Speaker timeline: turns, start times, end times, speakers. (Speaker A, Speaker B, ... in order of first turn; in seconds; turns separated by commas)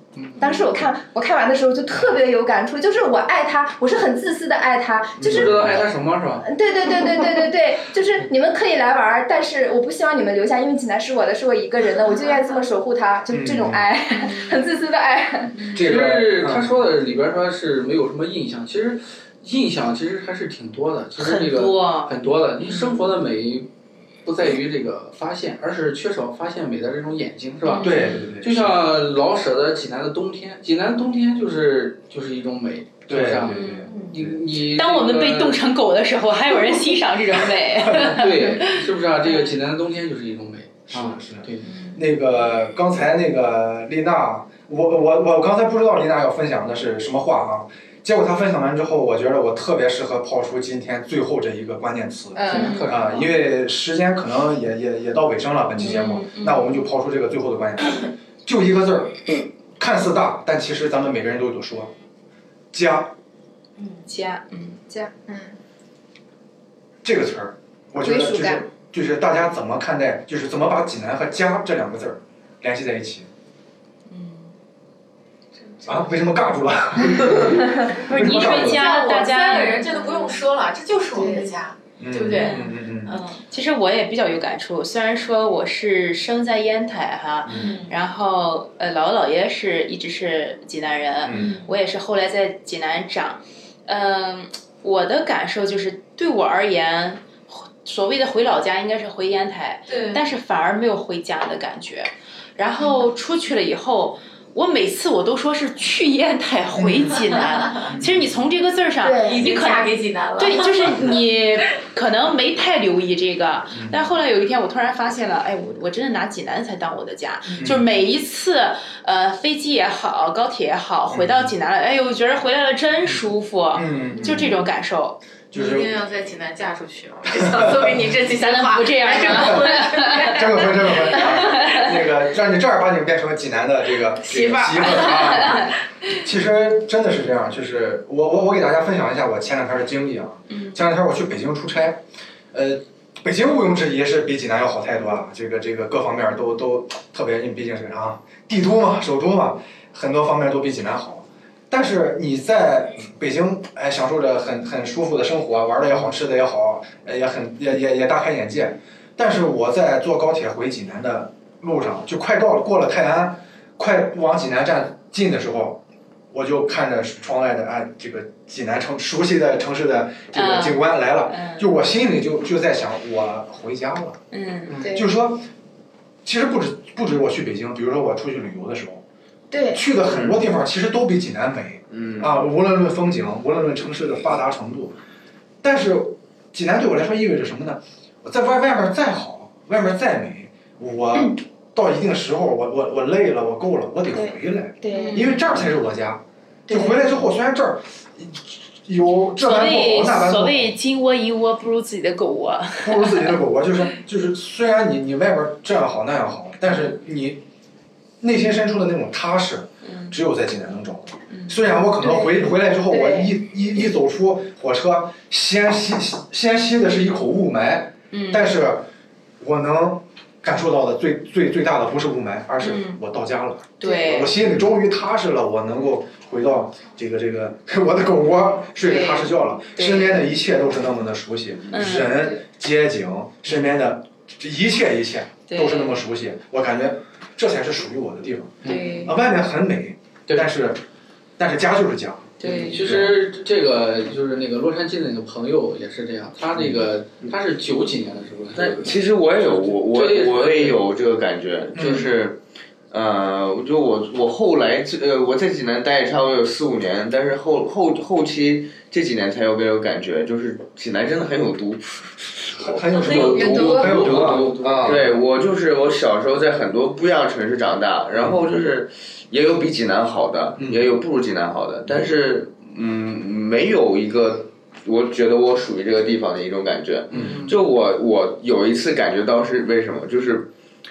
Speaker A: 0.1-0.7, Speaker B: 0.4-5.8, Speaker C: 5.2-5.8, Speaker A: 5.2-6.5, Speaker B: 6.4-15.6, Speaker C: 13.3-13.8, Speaker D: 14.2-14.6, Speaker D: 15.5-15.8, Speaker C: 15.7-16.7, Speaker A: 15.7-23.7, Speaker D: 21.2-23.0, Speaker A: 24.2-35.6, Speaker D: 27.6-28.2, Speaker C: 27.8-28.8, Speaker C: 33.1-34.4, Speaker D: 33.5-33.9, Speaker E: 33.8-34.1, Speaker D: 34.6-39.5, Speaker C: 37.8-38.1, Speaker A: 37.9-41.7, Speaker C: 40.9-61.9, Speaker D: 41.7-42.0, Speaker B: 52.3-52.8, Speaker A: 52.5-53.3, Speaker D: 52.5-52.9, Speaker D: 55.8-56.8, Speaker C: 62.7-63.1, Speaker E: 63.8-64.0, Speaker D: 64.1-64.8, Speaker B: 64.9-65.6, Speaker C: 67.0-73.3, Speaker B: 68.0-68.6, Speaker D: 74.1-74.5, Speaker C: 75.8-78.9, Speaker D: 78.0-80.1, Speaker E: 78.2-83.4, Speaker B: 81.1-81.5, Speaker C: 82.0-83.2, Speaker D: 82.3-82.7, Speaker D: 83.4-125.2, Speaker E: 87.5-88.0, Speaker C: 91.2-91.6, Speaker E: 99.9-100.2, Speaker C: 106.8-107.1, Speaker E: 107.1-107.9, Speaker C: 107.9-108.2, Speaker B: 109.0-109.5, Speaker E: 109.2-111.2, Speaker C: 113.7-114.0, Speaker C: 117.5-117.8, Speaker C: 121.1-121.5, Speaker C: 123.7-124.5, Speaker C: 125.5-125.9, Speaker E: 125.5-131.6, Speaker C: 127.3-127.9, Speaker D: 128.3-130.6, Speaker C: 129.3-142.0, Speaker D: 131.1-131.9, Speaker E: 134.2-135.4, Speaker D: 135.1-135.7, Speaker D: 140.5-140.8, Speaker C: 142.5-165.8, Speaker C: 166.3-175.5, Speaker D: 170.3-171.7, Speaker D: 174.3-174.8, Speaker B: 174.8-175.1, Speaker C: 176.2-179.0, Speaker B: 179.5-179.9, Speaker C: 179.7-184.9, Speaker F: 180.1-180.4, Speaker F: 181.9-182.5, Speaker C: 185.6-200.7, Speaker B: 194.1-195.3, Speaker D: 194.9-195.4, Speaker B: 196.7-197.2, Speaker D: 199.4-203.4, Speaker C: 202.8-207.4, Speaker C: 208.2-218.9, Speaker D: 209.8-210.1, Speaker D: 211.3-211.6, Speaker B: 211.9-213.3, Speaker D: 218.1-218.5, Speaker C: 219.4-240.8, Speaker D: 222.6-223.0, Speaker D: 223.8-224.3, Speaker B: 223.8-224.1, Speaker D: 228.8-230.2, Speaker D: 231.7-232.3, Speaker D: 235.5-236.0, Speaker A: 238.6-239.0, Speaker D: 238.6-239.2, Speaker A: 240.3-240.5, Speaker C: 241.4-243.1, Speaker D: 242.4-242.9, Speaker A: 242.4-250.8, Speaker F: 248.6-252.4, Speaker C: 251.7-252.1, Speaker F: 252.9-280.5, Speaker C: 262.5-265.0, Speaker A: 263.1-265.2, Speaker B: 263.1-263.8, Speaker E: 263.2-263.6, Speaker C: 268.1-268.4, Speaker C: 270.6-270.9, Speaker C: 277.1-277.4, Speaker A: 277.1-277.6